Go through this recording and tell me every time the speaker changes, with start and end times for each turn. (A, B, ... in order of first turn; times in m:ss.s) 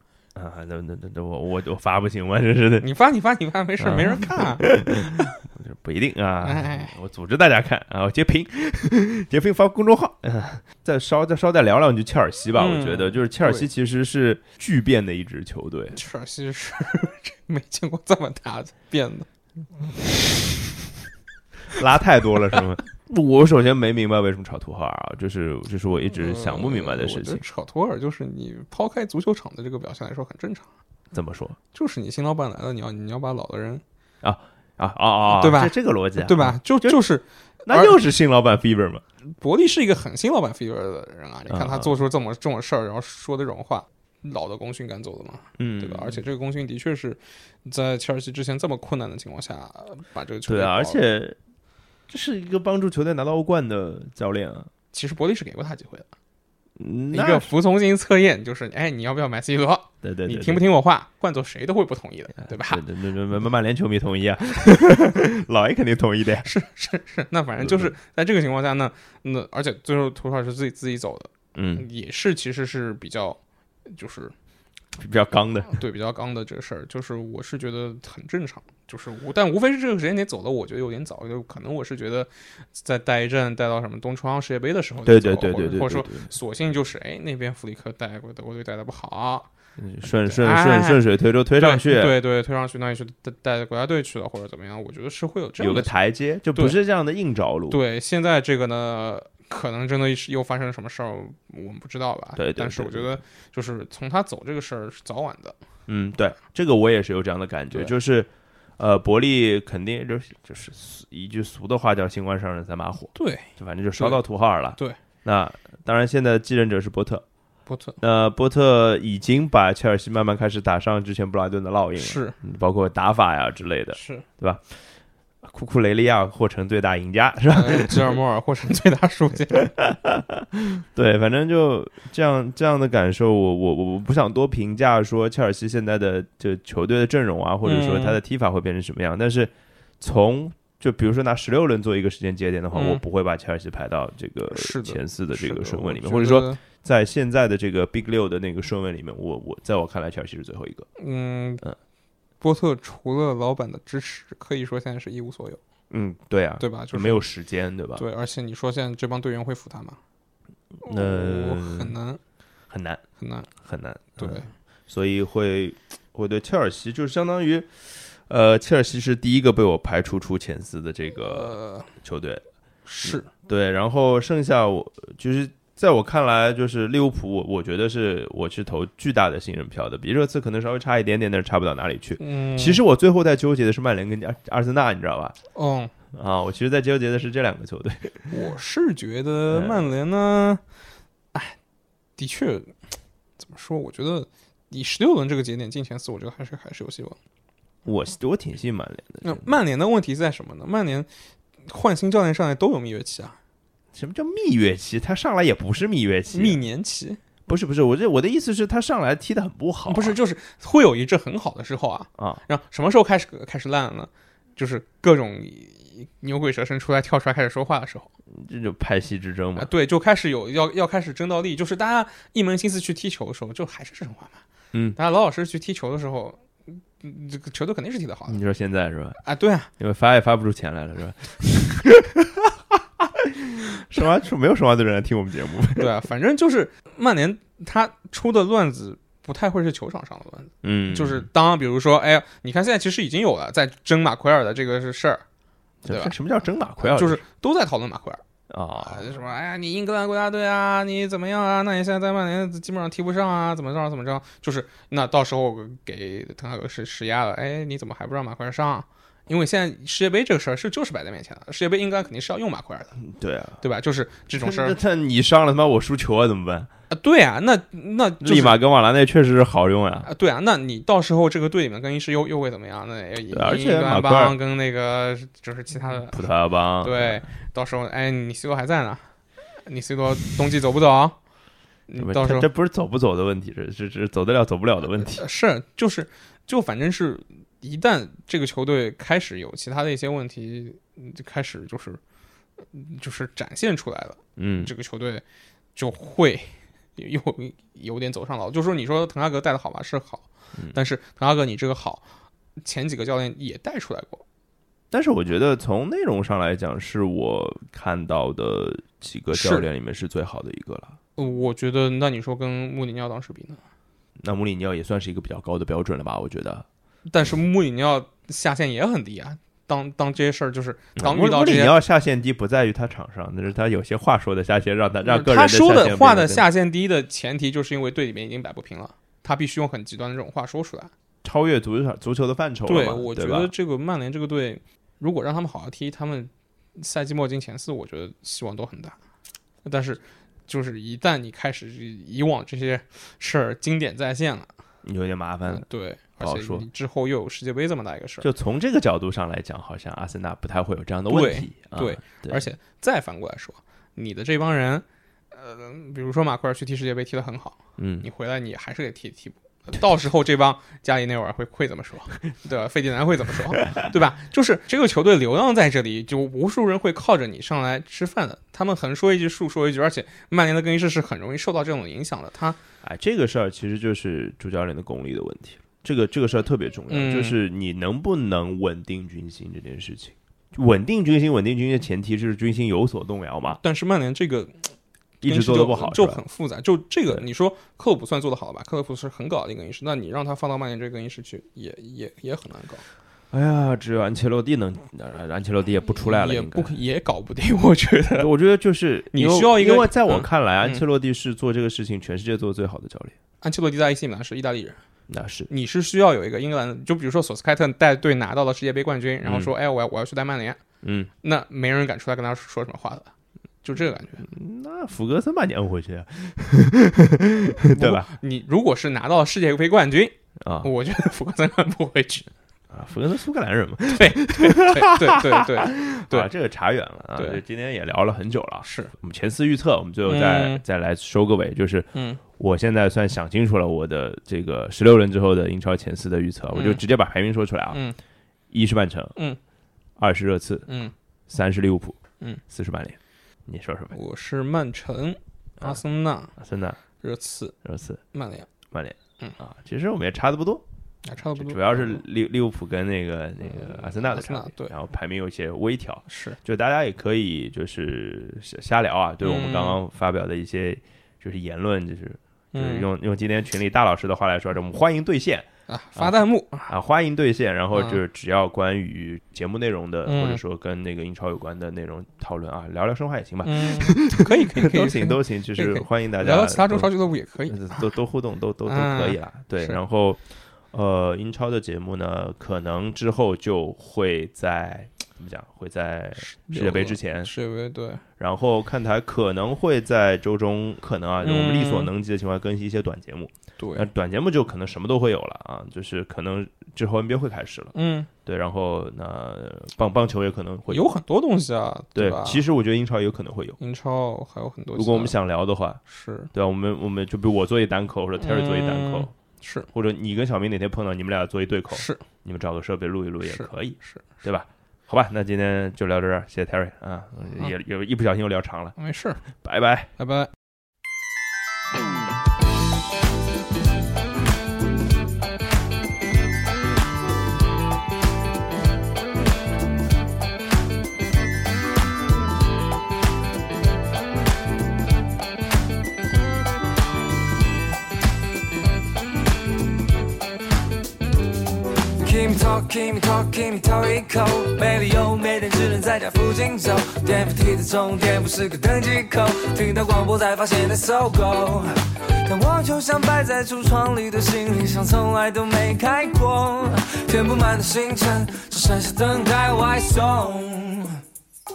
0:00.3-0:02.9 A
0:02.8-0:05.3 B
0:03.8-0:16.0 A
0:06.4-0:06.9 B
0:12.5-0:13.7 B
0:15.9-0:19.3 B
0:21.7-0:27.4 A
0:26.1-0:30.7 B
0:31.1-0:31.6 A
0:31.7-0:33.8 B
0:34.2-0:37.0 A
0:35.3-0:38.0 B
0:37.6-0:39.0 A
0:39.4-0:51.0 B
0:41.5-0:42.0 A
0:45.6-0:46.2 A
0:50.5-0:51.4 A
0:52.1-0:54.7 A
0:54.9-0:56.1 B
0:56.8-0:57.5 A
0:57.1-1:02.8 B
1:00.0-1:00.6 A
1:02.4-1:06.5 A
1:06.4-1:14.3 B
1:07.6-1:07.9 A
1:11.5-1:11.8 A
1:15.0-1:15.8 A
1:15.7-1:29.5 B
1:25.0-1:26.3 A
1:29.8-1:32.1 A
1:30.2-1:31.0 B
1:31.6-1:35.9 B
1:35.6-1:37.8 A
1:37.7-1:45.6 B
1:42.4-1:43.2 A
1:45.9-1:57.2 A
1:53.1-1:54.2 B
1:57.7-1:58.0 B
1:58.0-2:04.7 A
2:02.0-2:02.4 B
2:04.0-2:04.2 B
2:05.4-2:08.2 A
2:07.5-2:09.7 B
2:09.7-2:30.9 A
2:17.6-2:18.2 B
2:22.7-2:23.0 B
2:24.5-2:26.6 B
2:31.0-2:31.6 B
2:32.4-2:35.6 B
2:35.9-2:38.0 A
2:36.6-2:37.3 B
2:38.0-2:40.0 B
2:40.8-2:41.9 A
2:40.8-2:42.2 B
2:42.7-2:43.0 A
2:43.2-2:43.5 B
2:43.6-2:52.4 A
2:44.2-2:44.5 B
2:51.2-2:51.9 B
2:52.8-2:53.3 B
2:53.0-3:05.4 A
3:02.2-3:02.8 B
3:05.5-3:05.9 B
3:06.1-3:08.3 A
3:08.3-3:10.6 B
3:09.5-3:09.9 A
3:12.2-3:12.8 B
3:13.4-3:17.2 B
3:17.8-3:19.5 A
3:19.2-3:21.1 B
3:21.7-3:23.4 B
3:23.9-3:26.6 A
3:26.3-3:27.2 B
3:27.5-3:30.2 A
3:29.9-3:38.1 B
3:32.2-3:32.4 A
3:38.3-3:39.7 A
3:39.6-3:44.4 B
3:45.0-3:48.4 B
3:48.3-3:49.2 A
3:49.2-3:49.7 B
3:49.8-3:55.9 A
3:55.8-4:05.2 B
4:00.6-4:01.3 A
4:05.8-4:07.2 A
4:05.9-4:06.1 B
4:06.8-4:08.2 B
4:08.5-4:09.1 A
4:08.8-4:23.0 B
4:23.1-4:23.6 A
4:23.6-4:24.8 B
4:24.4-4:26.7 A
4:26.9-4:28.6 B
4:28.2-4:30.1 A
4:30.0-4:36.2 B
4:33.3-4:34.3 A
4:36.1-4:37.2 A
4:36.8-4:39.0 B
4:39.6-4:41.2 B
4:41.9-4:42.5 B
4:42.0-4:45.2 A
4:45.0-4:52.0 B
4:52.6-4:55.2 B
4:54.4-4:54.7 A
4:55.8-5:02.0 B
5:02.6-5:04.2 B
5:04.9-5:11.0 A
5:09.3-5:09.7 B
5:11.2-5:13.6 B
5:14.2-5:16.6 A
5:17.1-5:21.7 B
5:21.0-5:26.4 A
5:25.0-5:30.9 B
5:31.2-5:33.5 A
5:32.6-5:39.0 B
5:39.6-5:44.5 B
5:44.8-5:45.7 A
5:45.5-5:48.3 B
5:46.2-5:46.7 A
5:48.2-5:52.4 A
5:51.1-6:12.6 B
5:57.8-5:58.1 A
6:12.8-6:23.6 A
6:16.9-6:17.4 B
6:23.6-6:24.7 B
6:25.2-6:26.2 A
6:25.2-6:32.8 B
6:33.3-6:36.8 A
6:36.0-6:38.3 B
6:38.2-6:43.2 A
6:39.1-6:40.8 B
6:43.4-6:44.8 B
6:45.1-6:45.5 A
6:45.5-6:50.6 B
6:49.2-6:49.5 A
6:50.8-6:51.1 A
6:51.2-6:53.1 B
6:53.6-6:54.3 B
6:54.2-6:58.1 A
6:57.6-7:02.3 B
7:00.4-7:00.7 A
7:02.7-7:17.8 A
7:03.9-7:06.3 B
7:08.6-7:08.9 B
7:10.1-7:10.6 B
7:11.9-7:12.2 B
7:16.5-7:16.8 B
7:17.7-7:18.0 B
7:18.5-7:19.1 A
7:20.0-7:20.7 A
7:20.7-7:20.9 B
7:21.3-7:24.0 A
7:23.9-7:26.3 B
7:26.4-7:26.8 A
7:27.0-7:27.6 B
7:27.6-7:28.0 A
7:28.1-7:28.5 B
7:28.7-7:30.6 A
7:31.0-7:32.0 B
7:31.3-8:07.3 A
7:33.5-7:34.7 B
7:36.1-7:36.4 B
7:39.2-7:39.8 B
7:42.5-7:42.9 B
7:45.7-7:46.7 B
7:47.7-7:48.0 B
7:50.0-7:50.4 B
7:53.4-7:57.9 B
7:58.6-7:59.8 B
8:06.2-8:08.0 B
8:08.2-8:17.7 A
8:11.2-8:11.9 B
8:13.6-8:13.9 B
8:17.7-8:18.1 B
8:18.2-8:20.9 A
8:20.7-8:22.4 B
8:21.9-8:23.6 A
8:23.6-8:25.2 B
8:24.7-8:25.8 A
8:25.9-8:26.3 B
8:26.3-8:29.1 A
8:28.2-8:29.7 B
8:29.7-8:38.8 A
8:31.7-8:32.0 B
8:33.2-8:34.1 B
8:38.8-8:39.2 B
8:39.4-8:39.9 A
8:40.0-8:40.3 B
9:02.0-9:21.0 C